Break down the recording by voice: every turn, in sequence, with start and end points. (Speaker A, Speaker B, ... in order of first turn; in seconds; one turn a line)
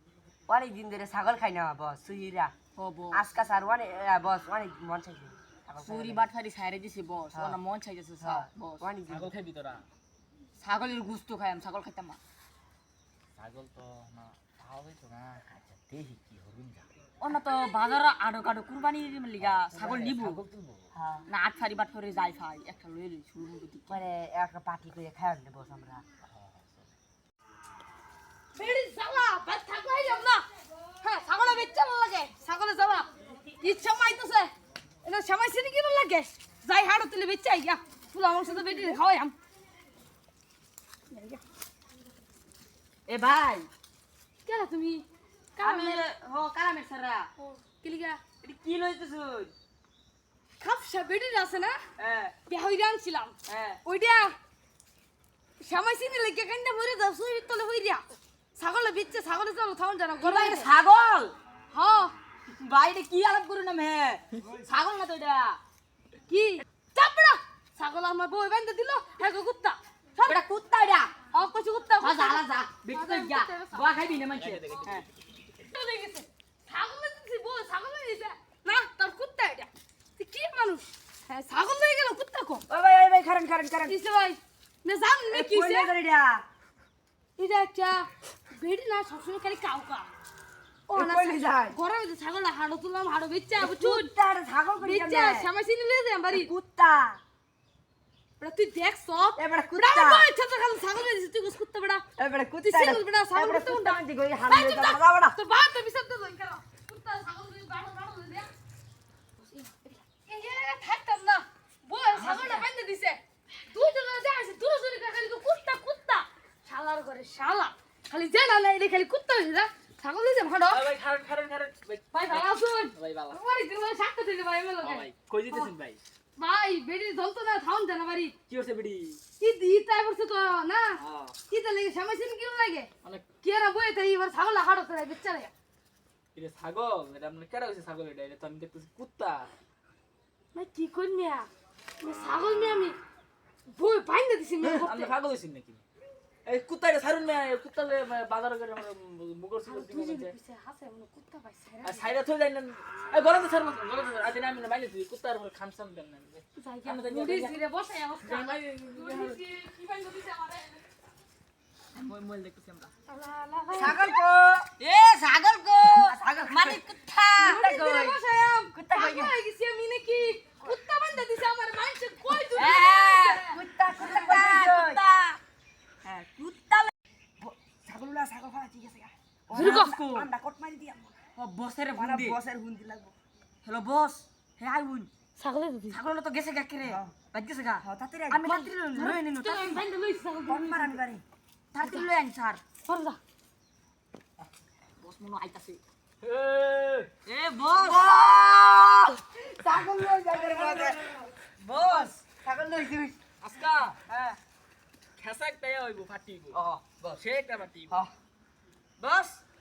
Speaker A: 0.5-2.5
Speaker B: 2.8-3.2
Speaker A: 3.1-6.3
Speaker B: 5.8-8.9
Speaker A: 7.3-7.6
Speaker A: 8.2-9.3
Speaker C: 9.1-9.8
Speaker B: 10.6-12.2
Speaker C: 13.3-16.9
Speaker B: 17.2-20.4
Speaker C: 19.4-20.9
Speaker A: 20.9-21.3
Speaker B: 21.3-24.0
Speaker A: 23.9-26.0
Speaker C: 26.2-26.9
Speaker D: 28.5-30.4
Speaker D: 31.0-33.1
Speaker D: 33.6-34.5
Speaker D: 35.0-39.3
Speaker D: 41.1-41.4
Speaker B: 43.1-43.7
Speaker D: 44.4-45.0
Speaker D: 45.5-46.0
Speaker B: 45.6-47.3
Speaker D: 47.4-48.2
Speaker B: 48.4-49.5
Speaker D: 50.6-51.8
Speaker B: 52.0-52.3
Speaker D: 52.5-54.3
Speaker B: 53.5-53.8
Speaker D: 55.6-58.0
Speaker D: 58.5-60.7
Speaker B: 60.2-61.3
Speaker D: 61.7-62.1
Speaker B: 62.5-65.6
Speaker D: 66.3-69.8
Speaker B: 70.2-71.1
Speaker D: 71.3-74.0
Speaker B: 72.0-75.1
Speaker C: 74.3-75.1
Speaker D: 75.6-82.6
Speaker A: 82.7-84.0
Speaker D: 83.9-85.9
Speaker A: 85.3-86.5
Speaker D: 87.4-90.1
Speaker D: 90.9-94.1
Speaker A: 90.9-91.8
Speaker A: 93.6-95.5
Speaker D: 94.8-96.5
Speaker A: 96.3-97.2
Speaker D: 98.4-102.0
Speaker A: 99.3-100.3
Speaker A: 102.2-105.4
Speaker D: 102.7-108.5
Speaker B: 109.4-110.0
Speaker D: 110.2-120.8
Speaker A: 112.2-112.7
Speaker C: 120.7-123.4
Speaker D: 122.1-125.7
Speaker C: 124.8-126.0
Speaker D: 126.4-128.3
Speaker C: 128.5-129.2
Speaker D: 129.4-132.9
Speaker C: 131.0-131.3
Speaker D: 133.4-135.5
Speaker C: 136.3-139.5
Speaker D: 140.5-141.5
Speaker D: 142.0-143.0
Speaker D: 143.7-145.1
Speaker C: 144.6-145.8
Speaker C: 146.4-150.3
Speaker D: 149.6-152.1
Speaker C: 151.8-157.6
Speaker D: 156.6-160.8
Speaker B: 158.3-159.3
Speaker C: 158.9-159.2
Speaker B: 161.9-162.9
Speaker D: 163.1-164.2
Speaker A: 163.7-164.7
Speaker B: 164.8-167.6
Speaker A: 165.8-166.8
Speaker D: 167.4-173.6
Speaker A: 167.4-168.2
Speaker A: 168.7-169.3
Speaker B: 172.5-173.4
Speaker A: 173.4-175.0
Speaker B: 174.0-175.4
Speaker B: 176.0-176.9
Speaker A: 177.4-181.1
Speaker D: 179.5-180.0
Speaker B: 179.5-180.3
Speaker B: 181.3-182.4
Speaker A: 181.9-183.1
Speaker B: 183.6-185.1
Speaker D: 185.4-186.0
Speaker B: 185.9-189.8
Speaker A: 186.8-187.2
Speaker A: 187.8-188.6
Speaker D: 188.6-191.0
Speaker A: 190.5-191.2
Speaker B: 191.7-192.6
Speaker D: 191.8-192.1
Speaker D: 192.8-193.2
Speaker B: 195.0-195.8
Speaker C: 196.2-197.1
Speaker B: 197.2-198.3
Speaker A: 197.7-203.2
Speaker C: 200.5-200.8
Speaker B: 201.8-202.1
Speaker C: 203.4-204.0
Speaker A: 204.1-204.4
Speaker C: 205.2-208.0
Speaker A: 206.5-207.0
Speaker B: 209.0-209.4